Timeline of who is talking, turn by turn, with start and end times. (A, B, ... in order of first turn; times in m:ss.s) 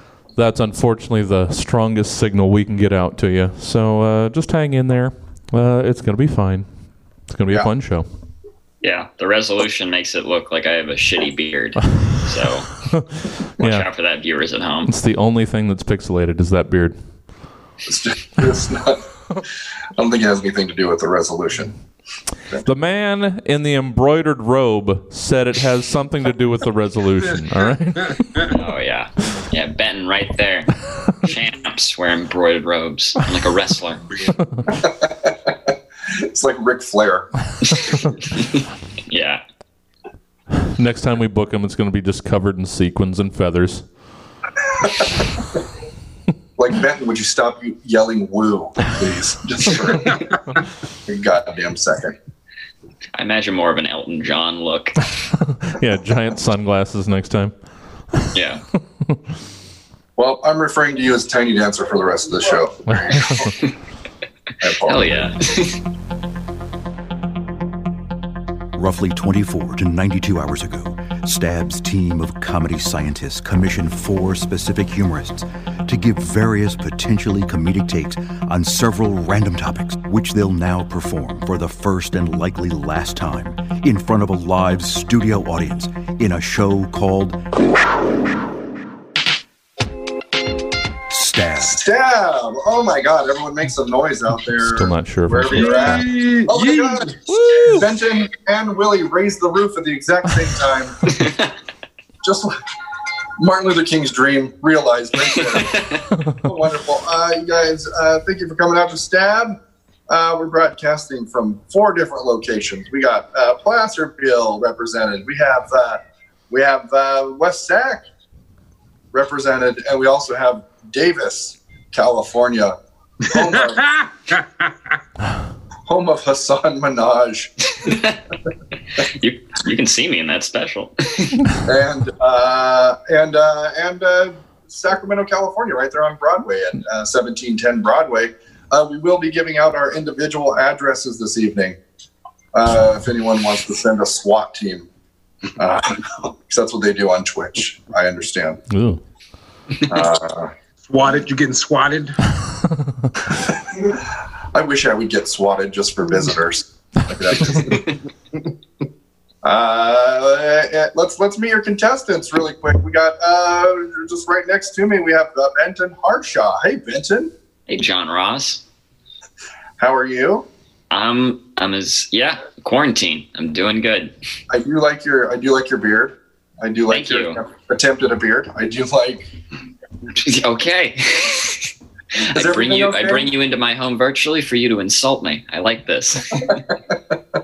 0:00.3-0:08.1 A
0:08.8-0:12.9 B
0:12.9-0:13.8 A
0:13.6-0:14.9 B
0:14.8-0:17.0 A
0:17.9-0:19.0 C
0:20.0-0:21.8 C
0:22.6-0:28.4 A
0:28.0-0:28.6 D
0:28.5-0:34.1 B
0:34.7-0:35.5 C
0:36.2-0:37.5 C
0:38.3-0:39.4 B
0:40.7-0:43.9 A
0:44.8-0:45.1 C
0:46.6-0:50.4 C
0:51.0-0:52.1 C
0:53.2-0:55.1 B
0:55.5-0:57.5 A
0:58.3-0:58.6 B
1:00.2-1:03.6 C
1:03.0-1:03.4 A
1:04.6-1:05.3 C
1:04.8-1:05.8 B
1:08.8-1:27.4 E
1:31.1-1:31.8 E
1:31.6-1:41.1 C
1:34.6-1:36.0 A
1:35.5-1:37.2 D
1:37.3-1:37.9 A
1:41.2-1:41.5 B
1:42.2-1:42.6 C
1:43.4-1:45.9 C
1:45.5-1:46.0 B
1:46.4-1:49.6 C
1:50.1-1:58.0 C
1:59.1-2:02.8 C
2:03.3-2:03.9 C
2:03.4-2:05.0 D
2:05.9-2:07.5 C
2:07.7-2:08.2 B
2:09.0-2:11.4 B
2:11.6-2:21.8 C
2:22.5-2:24.9 C
2:25.6-2:28.6 C
2:28.7-2:29.0 A
2:29.9-2:30.5 C
2:30.8-2:32.2 D
2:33.6-2:34.0 C
2:34.5-2:37.9 C
2:39.4-2:47.3 C
2:47.7-2:48.6 B
2:49.8-2:50.5 C
2:50.9-2:54.1 B
2:54.5-2:59.3 C
2:56.9-2:57.4 B
3:00.2-3:06.6 B
3:02.3-3:03.3 C